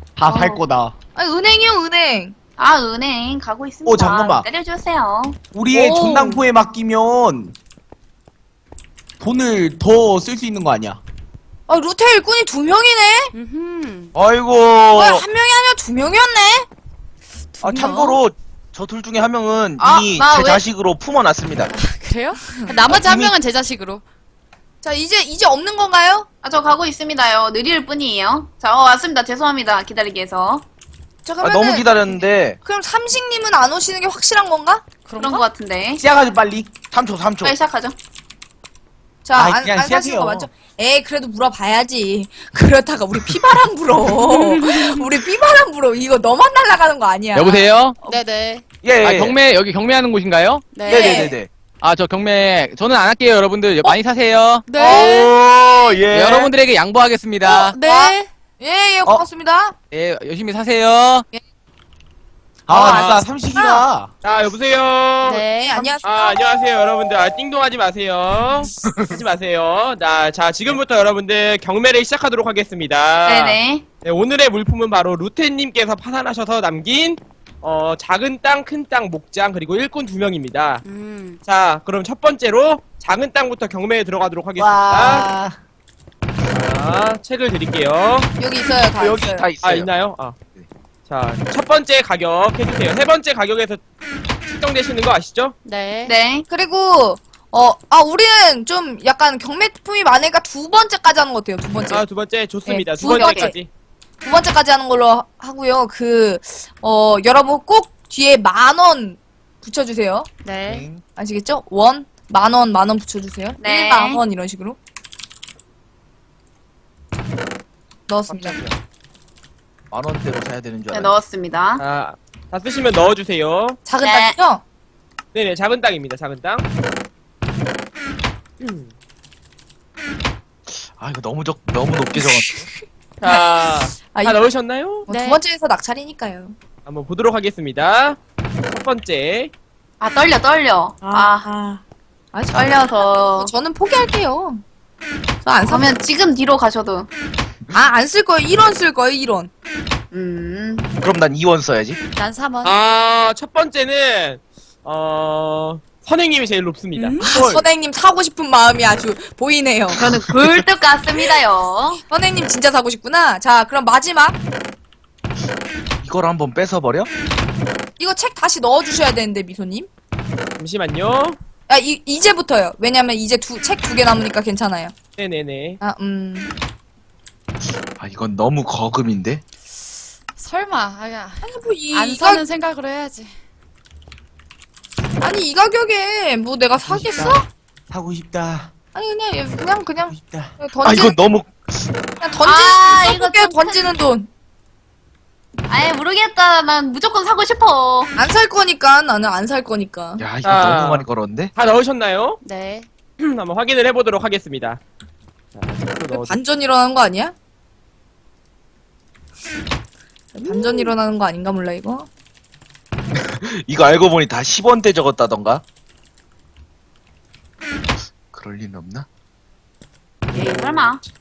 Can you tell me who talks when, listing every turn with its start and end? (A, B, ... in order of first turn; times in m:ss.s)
0:00.2-0:00.9 A
0:00.3-0:00.6 B
0:01.2-0:02.4 C
0:02.6-0:05.4 B
0:03.9-0:04.5 A
0:05.5-0:07.5 A
0:05.7-0:06.4 C
0:09.2-0:11.0 A
0:11.7-0:13.3 C
0:13.3-0:14.1 D
0:14.2-0:15.2 E
0:14.9-0:16.7 C
0:17.5-0:18.2 D
0:17.6-0:21.7 E
0:19.8-0:20.6 B
0:21.7-0:24.0 D
0:22.9-0:23.3 E
0:24.8-0:26.3 C
0:26.4-0:30.6 B
0:31.2-0:34.8 C
0:31.4-0:32.6 E
0:35.0-0:35.4 D
0:35.2-0:36.0 B
0:36.0-0:36.8 A
0:36.9-0:37.6 E
0:37.4-0:38.0 B
0:39.2-0:48.2 C
0:39.4-0:40.5 A
0:44.2-0:44.9 D
0:47.4-0:47.9 F
0:48.1-0:48.6 D
0:48.8-0:49.4 E
0:49.0-0:50.7 F
0:50.7-0:51.3 D
0:50.8-0:51.4 C
0:50.9-0:51.5 E
0:51.8-0:54.6 F
0:54.7-0:55.3 D
0:54.8-0:55.3 C
0:54.9-0:56.4 E
0:56.1-0:57.8 F
0:57.4-0:59.7 C
0:57.7-0:58.3 D
0:59.9-1:01.2 F
1:02.7-1:04.1 A
1:02.7-1:03.8 C
1:02.8-1:03.4 G
1:04.2-1:05.4 G
1:05.2-1:05.9 D
1:05.5-1:06.8 C
1:06.0-1:20.8 G
1:13.2-1:13.8 B
1:20.8-1:21.4 D
1:21.4-1:25.3 G
1:24.6-1:25.5 A
1:26.5-1:28.3 G
1:28.4-1:29.5 C
1:29.0-1:29.9 E
1:29.6-1:30.4 G
1:31.1-1:33.8 G
1:34.5-1:35.6 G
1:35.6-1:36.2 D
1:36.1-1:36.4 B
1:36.5-1:42.0 C
1:41.9-1:43.7 G
1:42.6-1:43.6 C
1:43.0-1:43.5 B
1:44.2-1:50.3 C
1:50.4-1:50.9 D
1:50.6-1:51.0 E
1:51.2-1:54.8 C
1:53.6-1:54.2 B
1:58.1-1:58.6 C
1:58.3-1:58.8 E
1:59.9-2:01.2 E
2:00.9-2:01.8 B
2:01.8-2:03.8 G
2:03.8-2:04.6 C
2:04.0-2:04.4 B
2:05.3-2:06.6 G
2:08.6-2:08.9 G
2:10.7-2:12.7 E
2:12.2-2:12.7 C
2:13.2-2:15.1 G
2:13.2-2:14.5 C
2:15.1-2:16.6 C
2:15.1-2:15.4 D
2:16.9-2:18.2 G
2:18.7-2:19.5 G
2:20.0-2:21.5 B
2:21.0-2:21.8 C
2:22.3-2:24.6 C
2:22.5-2:23.5 B
2:25.4-2:25.9 C
2:25.6-2:27.1 B
2:27.7-2:29.5 C
2:30.1-2:30.9 B
2:31.0-2:32.0 E
2:32.1-2:32.7 D
2:32.6-2:37.6 G
2:36.9-2:37.2 D
2:37.2-2:40.0 C
2:39.9-2:40.6 E
2:40.0-2:42.0 B
2:42.1-2:44.4 C
2:46.0-2:47.1 E
2:48.0-2:49.9 C
2:50.6-2:51.4 G
2:51.7-2:54.9 C
2:55.2-2:55.8 G
2:55.8-2:56.5 C
2:57.9-2:59.4 E
3:00.4-3:03.4 D
3:01.4-3:02.4 C
3:05.2-3:07.4 C
3:06.8-3:07.4 A
3:07.9-3:08.7 A
3:08.9-3:11.2 C
3:10.1-3:10.5 A
3:10.8-3:12.0 E
3:12.2-3:14.3 C
3:12.4-3:14.0 B
3:15.7-3:18.1 B
3:18.2-3:20.2 C
3:20.2-3:21.5 E
3:20.4-3:22.4 G
3:22.4-3:22.9 D
3:23.2-3:24.8 G
3:25.6-3:26.4 G
3:26.1-3:27.3 C
3:30.3-3:32.1 C
3:33.4-3:35.6 E
3:38.3-3:39.1 E
3:40.3-3:40.9 A
3:40.3-3:41.0 B